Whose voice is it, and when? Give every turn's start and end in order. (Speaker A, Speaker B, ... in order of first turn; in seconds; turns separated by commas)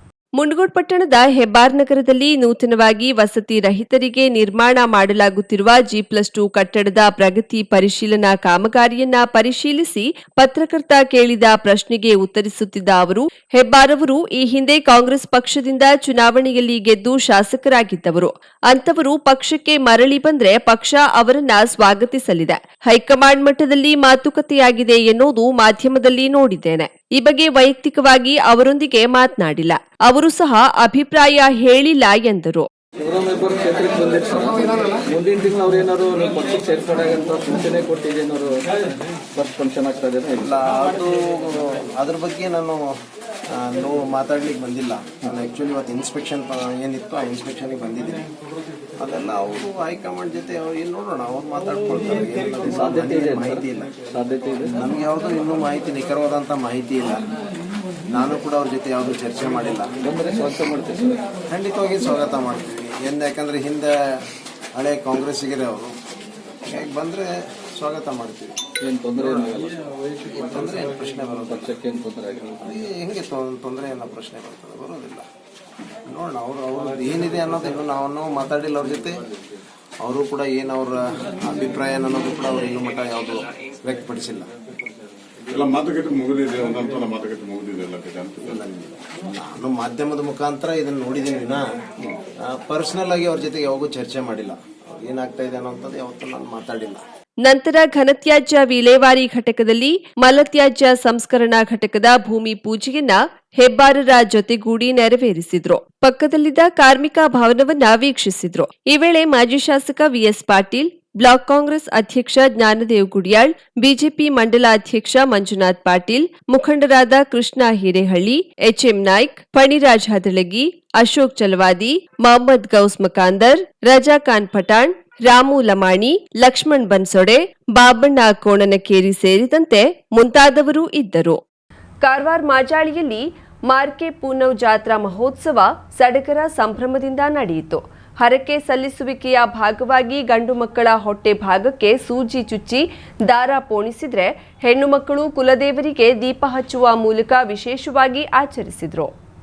Speaker A: 0.4-32.7, Speaker B: 33.0-40.5, Speaker C: 40.4-42.9, Speaker C: 43.5-48.3, Speaker C: 49.0-53.9, Speaker B: 52.6-54.8, Speaker C: 54.8-57.2, Speaker C: 58.1-59.9, Speaker B: 60.0-61.2, Speaker C: 61.5-63.9, Speaker C: 64.7-65.9, Speaker C: 66.7-68.5, Speaker B: 68.8-70.4, Speaker C: 70.3-71.7, Speaker B: 71.2-72.7, Speaker C: 72.6-75.2, Speaker C: 76.1-79.2, Speaker C: 80.0-84.5, Speaker D: 85.5-88.6, Speaker C: 88.5-91.6, Speaker C: 92.4-97.0, Speaker A: 97.4-131.4, Speaker A: 132.0-149.1